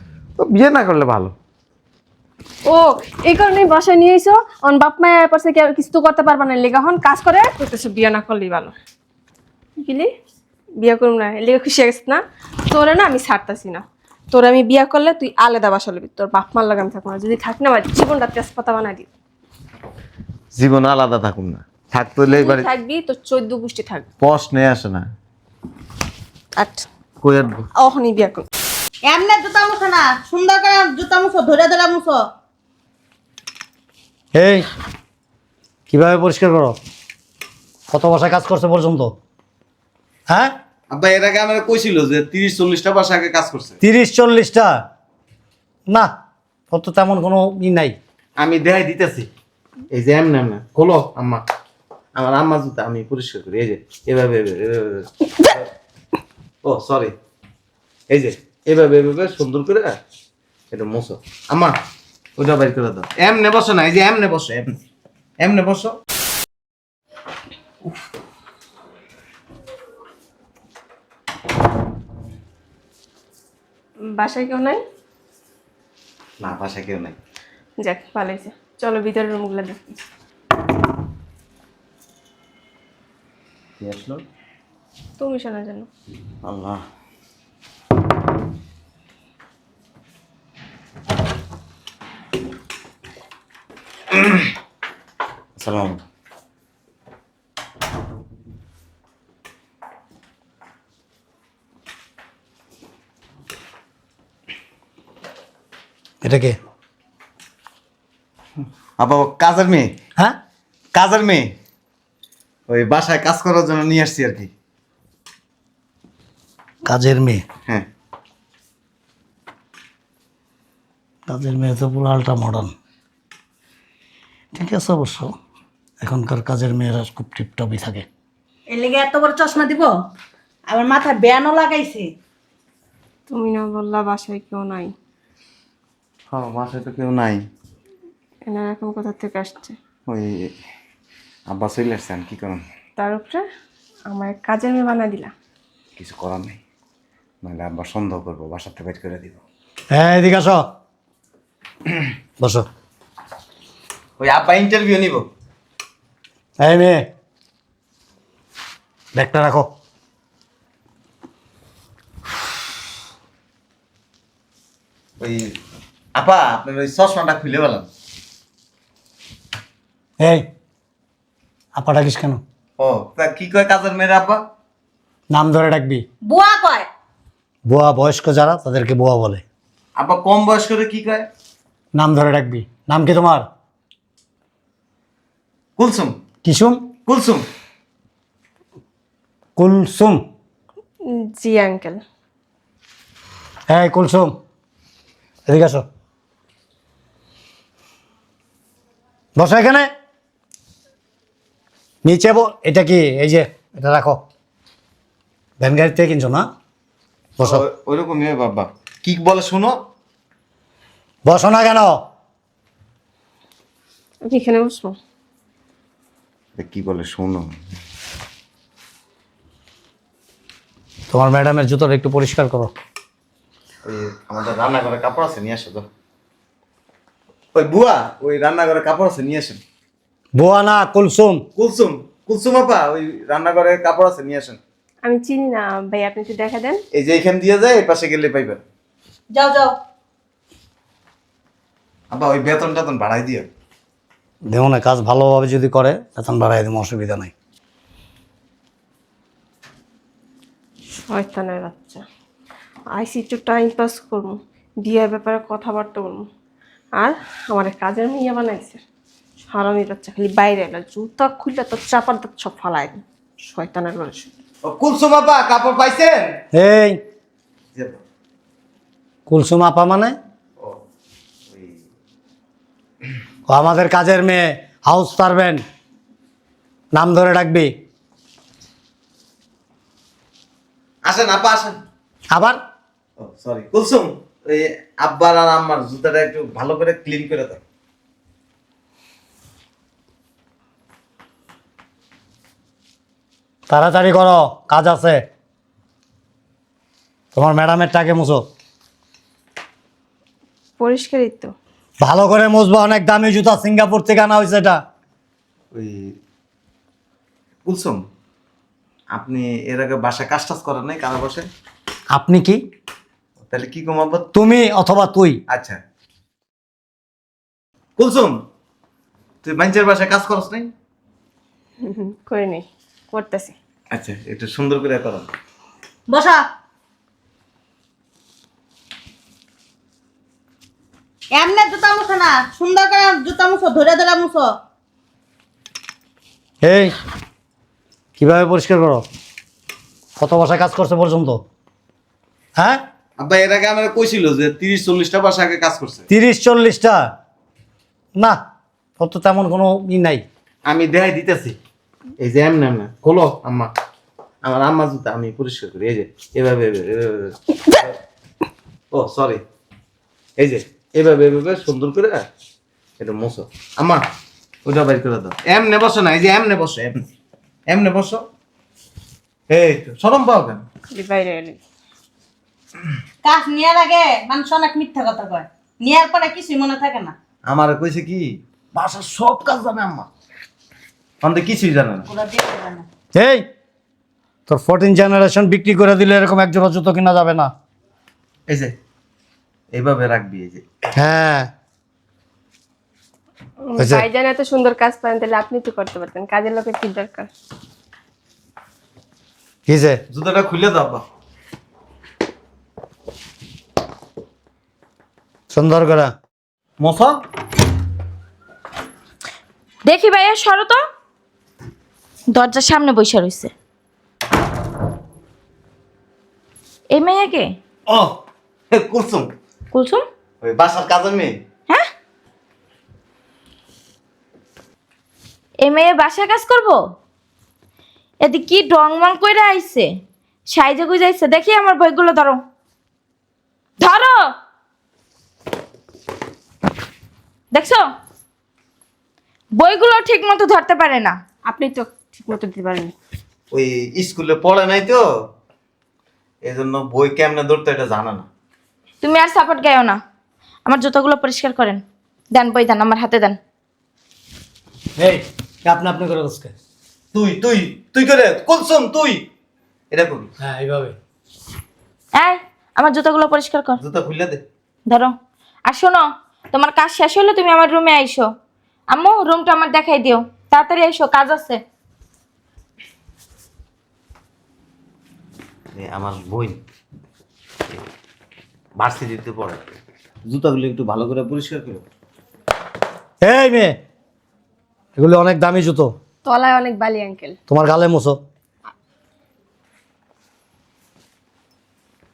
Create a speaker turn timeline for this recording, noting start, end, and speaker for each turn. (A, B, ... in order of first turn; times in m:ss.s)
0:00.4-0:01.3 A
0:02.7-0:08.8 B
0:09.8-0:10.1 B
0:10.8-0:19.1 B
0:20.6-0:22.7 A
0:22.3-0:24.1 B
0:24.2-0:25.1 A
0:26.6-0:26.9 B
0:27.2-0:27.7 A
0:27.8-0:28.5 B
0:29.1-0:32.2 C
0:34.4-0:34.7 D
0:35.9-0:36.8 D
0:37.9-0:39.1 D
0:40.3-0:40.5 D
0:40.9-0:43.8 A
0:43.8-0:44.8 D
0:46.7-0:48.0 D
0:48.4-0:49.3 A
0:49.9-0:51.4 A
0:52.2-0:55.7 A
0:56.6-0:57.1 A
0:58.1-0:59.9 A
1:00.7-1:01.8 A
1:02.4-1:04.8 A
1:05.4-1:06.0 A
1:14.1-1:14.8 B
1:16.4-1:17.2 A
1:17.8-1:20.0 B
1:23.8-1:24.2 A
1:25.2-1:25.9 B
1:26.4-1:26.8 A
1:34.1-1:34.5 A
1:35.6-1:36.0 A
1:46.2-1:46.6 D
1:49.0-1:50.0 A
1:50.9-1:51.5 A
1:52.7-1:54.5 A
1:56.9-1:57.4 D
2:01.3-2:02.7 D
2:04.5-2:05.3 D
2:06.0-2:08.1 D
2:08.7-2:09.9 C
2:10.7-2:12.1 C
2:13.3-2:14.9 B
2:16.3-2:17.4 A
2:18.5-2:19.8 B
2:20.1-2:20.5 A
2:21.5-2:22.6 A
2:23.0-2:23.4 B
2:24.1-2:25.3 B
2:26.0-2:26.6 A
2:27.4-2:29.4 A
2:29.9-2:30.7 D
2:32.4-2:32.7 D
2:34.2-2:35.3 A
2:36.6-2:37.1 D
2:39.2-2:39.7 D
2:45.2-2:45.5 A
2:46.2-2:47.9 A
2:50.2-2:50.5 D
2:51.8-2:52.4 D
2:52.8-2:54.4 A
2:55.3-2:56.0 D
2:56.2-2:56.9 C
2:57.7-2:59.4 D
3:00.0-3:01.3 A
3:02.0-3:03.4 D
3:05.8-3:06.2 A
3:06.4-3:06.9 D
3:07.1-3:07.5 A
3:09.6-3:10.2 D
3:11.0-3:12.0 B
3:13.7-3:14.4 D
3:15.5-3:15.8 D
3:19.4-3:19.9 D
3:22.0-3:24.2 D
3:25.6-3:26.5 D
3:27.4-3:29.8 A
3:31.2-3:32.0 D
3:34.2-3:35.0 B
3:36.6-3:37.6 A
3:41.1-3:42.7 D
3:43.8-3:45.9 A
3:47.6-3:49.6 A
3:50.4-3:51.4 D
3:51.6-3:54.6 A
3:55.0-3:56.8 B
3:56.9-3:58.6 A
3:59.3-3:59.8 C
4:02.1-4:03.5 A
4:04.5-4:07.3 D
4:11.1-4:12.0 B
4:12.9-4:16.3 B
4:17.0-4:18.8 B
4:19.5-4:24.3 B
4:24.6-4:26.4 A
4:26.5-4:27.0 D
4:29.3-4:30.2 D
4:31.5-4:31.8 A
4:33.5-4:35.6 D
4:37.0-4:37.7 D
4:41.0-4:41.8 A
4:42.3-4:42.6 D
4:43.2-4:47.6 A
4:53.7-4:55.2 D
4:57.4-4:58.4 D
5:00.8-5:01.5 B
5:02.0-5:04.8 D
5:05.7-5:06.0 A
5:07.6-5:08.0 A
5:09.1-5:11.5 A
5:12.1-5:12.6 D
5:13.5-5:14.3 A
5:14.3-5:15.4 D
5:15.5-5:15.8 A
5:18.0-5:18.4 A
5:19.4-5:20.7 A
5:21.8-5:23.6 B
5:23.9-5:25.3 A
5:26.1-5:26.4 C
5:31.3-5:34.5 C
5:36.6-5:37.0 D
5:38.2-5:39.0 D
5:40.2-5:41.4 D
5:43.2-5:46.0 A
5:46.1-5:47.1 D
5:49.0-5:50.2 D
5:50.7-5:51.6 A
5:52.2-5:53.7 A
5:54.4-5:57.9 A
5:58.9-5:59.4 A
6:00.4-6:02.2 A
6:03.0-6:04.0 A
6:04.6-6:07.0 A
6:07.7-6:08.2 A
6:09.5-6:10.6 A
6:10.9-6:11.6 B
6:13.2-6:17.2 C
6:17.5-6:20.1 A
6:21.2-6:22.1 A
6:22.1-6:22.9 C
6:23.2-6:23.4 D
6:24.5-6:27.5 D
6:28.5-6:28.8 A
6:29.7-6:30.6 A
6:31.0-6:31.5 D
6:33.6-6:37.3 B
6:33.8-6:34.1 D
6:39.7-6:40.0 D
6:40.1-6:41.0 A
6:45.5-6:46.1 D
6:46.8-6:47.2 A
6:49.9-6:50.8 E
6:52.3-6:53.5 E
6:56.9-6:57.5 E
6:57.9-6:58.1 A
6:58.7-6:59.3 A
6:59.7-7:00.0 E
7:00.4-7:01.4 A
7:05.6-7:06.8 E
7:08.2-7:09.9 E
7:10.5-7:12.4 E
7:13.8-7:14.2 E
7:17.5-7:17.8 E
7:19.6-7:21.2 E
7:21.5-7:23.0 B
7:23.5-7:25.0 A
7:26.4-7:28.3 A
7:29.0-7:30.0 E
7:30.7-7:33.4 E
7:35.0-7:36.5 D
7:37.1-7:39.2 A
7:39.9-7:40.3 A
7:40.4-7:41.0 D
7:42.2-7:43.8 E
7:43.8-7:44.4 A
7:45.7-7:48.3 E
7:48.9-7:51.6 E
7:55.7-7:56.6 A
7:58.8-7:59.6 A
8:00.3-8:01.8 A
8:03.2-8:03.8 D
8:05.0-8:05.9 D
8:06.2-8:07.4 B
8:07.5-8:08.2 D